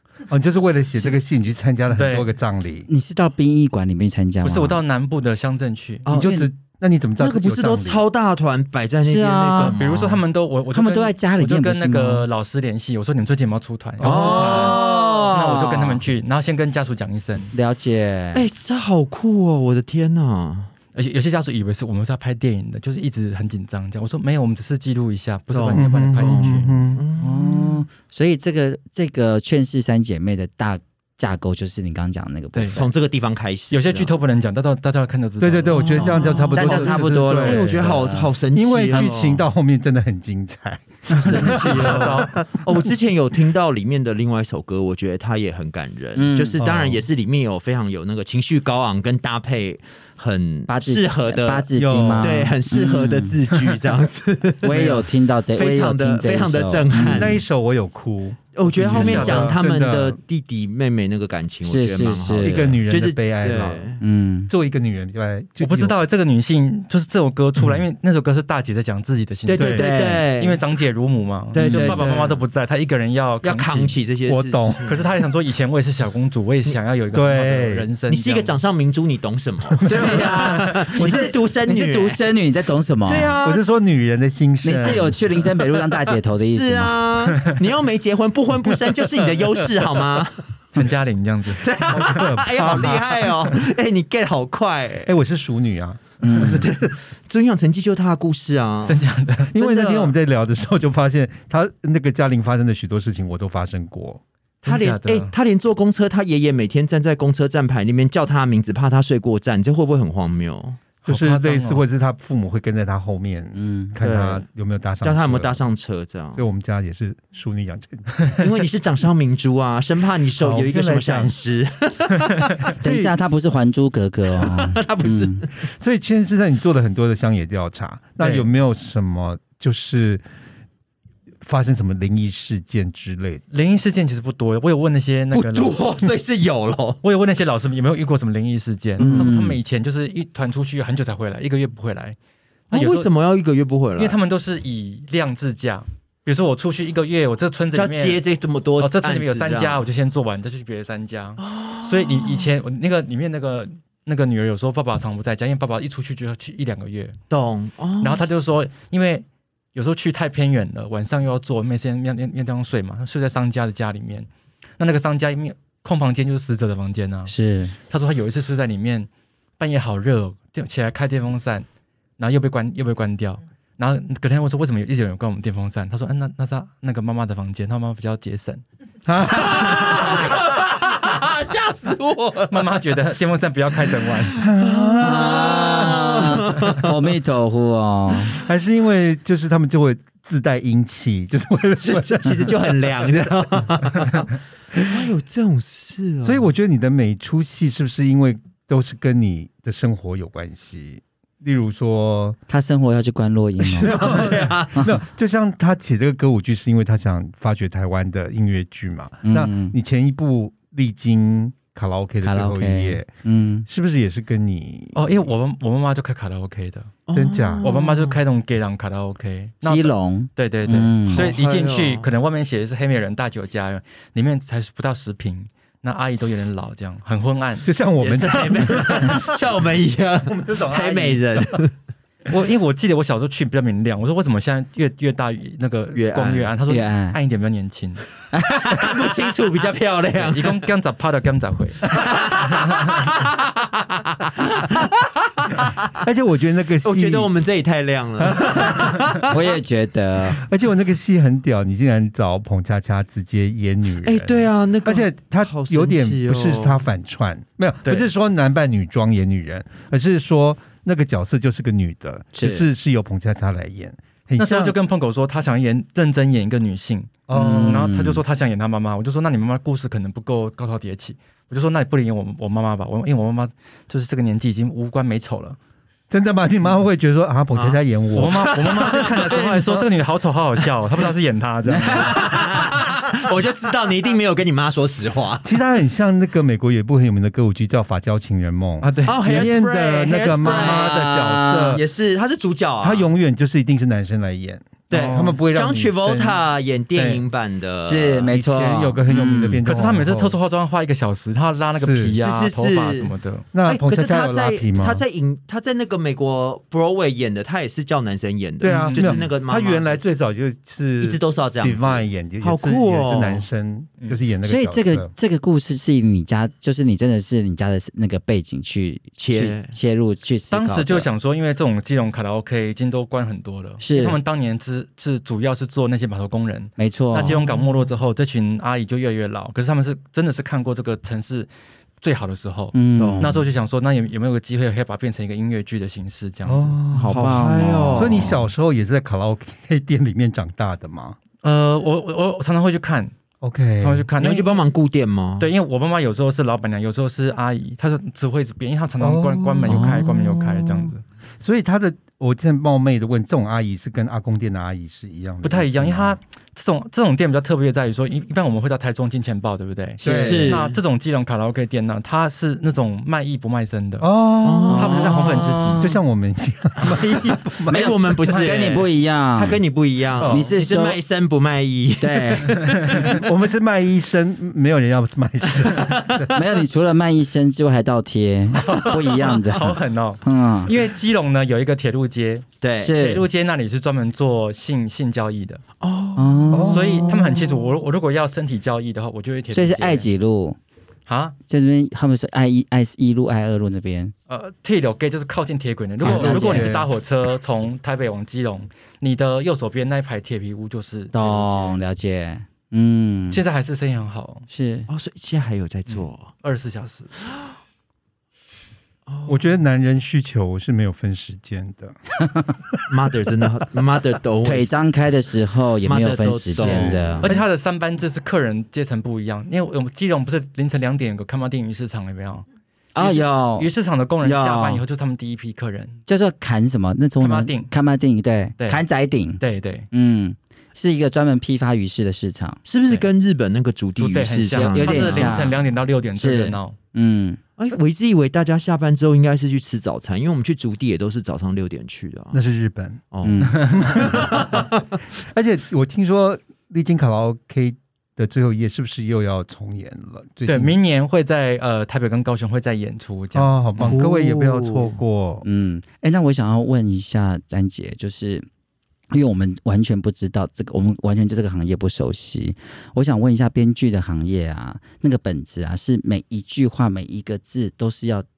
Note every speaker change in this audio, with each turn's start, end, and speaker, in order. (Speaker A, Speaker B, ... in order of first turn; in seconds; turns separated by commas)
Speaker A: 0.3-2.9, Speaker B: 1.9-2.3, Speaker C: 2.9-4.8, Speaker B: 4.4-6.0, Speaker D: 6.0-6.4, Speaker A: 6.1-8.0, Speaker C: 6.1-6.5, Speaker D: 7.2-10.2, Speaker C: 9.0-9.8, Speaker B: 9.6-17.5, Speaker C: 10.7-12.3, Speaker A: 14.0-15.2, Speaker C: 14.0-16.0, Speaker D: 14.6-14.8, Speaker C: 17.5-18.4, Speaker D: 18.3-20.7, Speaker B: 20.9-26.7, Speaker D: 25.5-27.9, Speaker A: 25.7-27.0, Speaker C: 27.2-32.9, Speaker B: 32.5-32.8, Speaker D: 32.7-34.1, Speaker B: 33.7-37.0, Speaker A: 35.4-42.3, Speaker D: 35.7-39.5, Speaker C: 36.5-38.3, Speaker D: 41.1-57.4, Speaker B: 41.3-42.4, Speaker C: 46.1-46.6, Speaker A: 46.6-47.0, Speaker C: 50.7-53.4, Speaker A: 51.8-52.5, Speaker C: 54.6-57.4, Speaker A: 57.0-60.2, Speaker D: 58.5-64.0, Speaker B: 58.8-59.6, Speaker C: 61.6-62.8, Speaker A: 62.4-64.0, Speaker C: 64.0-64.5, Speaker A: 64.5-66.0, Speaker B: 65.6-74.0, Speaker D: 69.5-70.6, Speaker C: 69.6-70.2, Speaker D: 71.5-72.4, Speaker C: 71.5-72.0, Speaker D: 73.4-75.1, Speaker A: 74.3-74.8, Speaker B: 74.8-78.5, Speaker A: 77.1-77.9, Speaker D: 78.1-82.2, Speaker A: 79.8-80.4, Speaker C: 79.8-83.4, Speaker A: 81.0-81.3, Speaker D: 83.0-83.6, Speaker A: 83.4-85.2, Speaker C: 84.6-87.0, Speaker D: 85.8-90.5, Speaker B: 90.7-91.7, Speaker D: 91.6-95.1, Speaker A: 91.8-93.5, Speaker A: 95.0-96.8, Speaker C: 96.2-96.7, Speaker D: 96.3-99.0, Speaker B: 98.9-99.5, Speaker A: 99.5-104.2, Speaker D: 99.5-100.1, Speaker B: 104.6-105.3, Speaker D: 104.6-110.8, Speaker B: 111.0-111.8, Speaker A: 111.1-115.6, Speaker C: 113.5-113.9, Speaker D: 114.0-114.5, Speaker D: 115.0-116.5, Speaker A: 116.3-118.4, Speaker D: 118.4-122.7, Speaker A: 120.4-121.3, Speaker B: 122.3-122.6, Speaker C: 122.8-125.4, Speaker D: 124.3-125.5, Speaker A: 125.7-130.2, Speaker B: 128.2-128.5, Speaker A: 131.4-133.4, Speaker B: 133.5-135.8, Speaker D: 135.3-137.0, Speaker B: 137.0-142.2, Speaker D: 139.0-139.3, Speaker C: 139.0-139.6, Speaker B: 142.7-143.1, Speaker D: 142.7-144.2, Speaker B: 144.0-148.2, Speaker D: 147.7-149.8, Speaker B: 148.8-157.2, Speaker D: 151.4-152.5, Speaker D: 157.3-158.2, Speaker B: 158.0-164.3, Speaker B: 164.8-167.3, Speaker C: 167.3-167.8, Speaker B: 167.9-171.7, Speaker B: 172.2-178.6, Speaker A: 179.1-180.3, Speaker D: 179.3-182.7, Speaker B: 182.5-184.4, Speaker A: 184.4-186.4, Speaker D: 184.4-186.9, Speaker C: 185.0-188.4, Speaker A: 188.3-194.2, Speaker D: 191.8-196.5, Speaker A: 196.2-202.4, Speaker C: 202.5-205.0, Speaker D: 203.6-204.8, Speaker A: 203.8-213.1, Speaker C: 209.2-209.8, Speaker C: 212.2-213.7, Speaker A: 213.7-215.3, Speaker B: 214.9-216.9, Speaker D: 217.1-218.2, Speaker A: 217.1-217.7, Speaker B: 217.6-227.7, Speaker C: 219.6-221.3, Speaker D: 221.1-222.1, Speaker A: 227.6-229.4, Speaker D: 228.0-231.7, Speaker A: 230.2-231.6, Speaker B: 232.3-238.0, Speaker D: 235.9-236.5, Speaker C: 236.7-237.2, Speaker C: 238.3-238.7, Speaker D: 238.5-240.7, Speaker B: 240.2-241.8, Speaker D: 241.9-244.3, Speaker D: 244.9-245.7, Speaker A: 246.0-247.3, Speaker D: 246.8-249.3, Speaker A: 248.2-249.2, Speaker C: 249.2-250.4, Speaker A: 250.3-264.8, Speaker D: 254.0-256.9, Speaker C: 262.4-262.6, Speaker B: 264.4-275.6, Speaker A: 267.3-267.9, Speaker C: 267.3-268.2, Speaker A: 276.1-278.5, Speaker D: 277.5-279.8, Speaker B: 278.1-282.5, Speaker D: 281.8-285.5, Speaker A: 285.4-291.8, Speaker B: 288.8-289.5, Speaker D: 289.1-293.1, Speaker C: 290.4-291.8, Speaker A: 292.8-296.4, Speaker D: 294.9-298.3, Speaker B: 294.9-295.4, Speaker A: 296.9-297.2, Speaker C: 297.8-299.6, Speaker A: 298.3-300.4, Speaker B: 299.6-303.4, Speaker A: 301.8-302.2, Speaker D: 302.2-303.1, Speaker A: 303.5-305.0, Speaker D: 303.6-310.0, Speaker A: 308.6-315.1, Speaker B: 308.7-309.2, Speaker D: 311.0-313.5, Speaker C: 314.4-321.1, Speaker D: 319.2-319.8, Speaker B: 320.5-331.5, Speaker C: 323.8-324.2, Speaker C: 326.8-327.4, Speaker B: 332.0-336.8, Speaker C: 332.7-333.4, Speaker D: 333.0-333.4, Speaker A: 336.4-341.2, Speaker C: 336.9-338.4, Speaker D: 337.0-338.5, Speaker B: 341.4-343.1, Speaker A: 343.4-344.1, Speaker B: 343.8-344.6, Speaker D: 344.2-345.5, Speaker B: 345.4-351.0, Speaker A: 349.0-350.9, Speaker C: 349.6-350.3, Speaker A: 351.4-356.2, Speaker B: 355.4-364.1, Speaker C: 360.0-360.6, Speaker A: 360.0-360.6, Speaker D: 360.0-360.8, Speaker A: 364.0-368.2, Speaker D: 364.4-365.1, Speaker C: 364.7-365.9, Speaker B: 364.7-365.9, Speaker D: 366.9-373.2, Speaker C: 367.7-369.6, Speaker C: 370.2-371.0, Speaker B: 370.2-370.5, Speaker C: 372.0-372.7, Speaker A: 373.0-376.3, Speaker D: 375.6-376.4, Speaker C: 376.3-380.7, Speaker B: 378.7-385.6, Speaker D: 382.6-383.0, Speaker C: 382.8-383.2, Speaker D: 385.8-386.6, Speaker C: 386.1-387.6, Speaker A: 386.5-386.9, Speaker B: 386.7-390.1, Speaker C: 389.5-390.6, Speaker B: 391.1-391.3, Speaker C: 391.5-394.1, Speaker B: 394.3-401.8, Speaker C: 396.0-396.8, Speaker A: 396.0-396.9, Speaker C: 401.1-403.4, Speaker B: 403.3-404.5, Speaker C: 404.5-404.9, Speaker D: 404.9-406.3, Speaker B: 405.9-407.1, Speaker D: 409.1-409.6, Speaker A: 409.3-412.0, Speaker D: 412.9-414.8, Speaker C: 414.4-417.3, Speaker D: 415.8-417.3, Speaker A: 416.7-417.4, Speaker B: 417.2-422.4, Speaker C: 422.9-423.7, Speaker B: 423.0-426.0, Speaker C: 424.2-424.8, Speaker C: 426.1-429.4, Speaker B: 427.2-427.7, Speaker B: 428.6-428.8, Speaker B: 429.4-429.9, Speaker C: 429.9-432.6, Speaker D: 432.6-435.5, Speaker B: 434.0-436.8, Speaker C: 434.5-435.6, Speaker C: 436.1-437.4, Speaker D: 437.6-442.4, Speaker A: 442.3-443.0, Speaker D: 443.1-444.8, Speaker C: 443.2-443.8, Speaker B: 443.4-444.1, Speaker A: 443.6-450.8, Speaker B: 450.4-453.9, Speaker A: 453.3-455.4, Speaker D: 453.8-455.0, Speaker C: 455.4-458.5, Speaker C: 459.1-468.2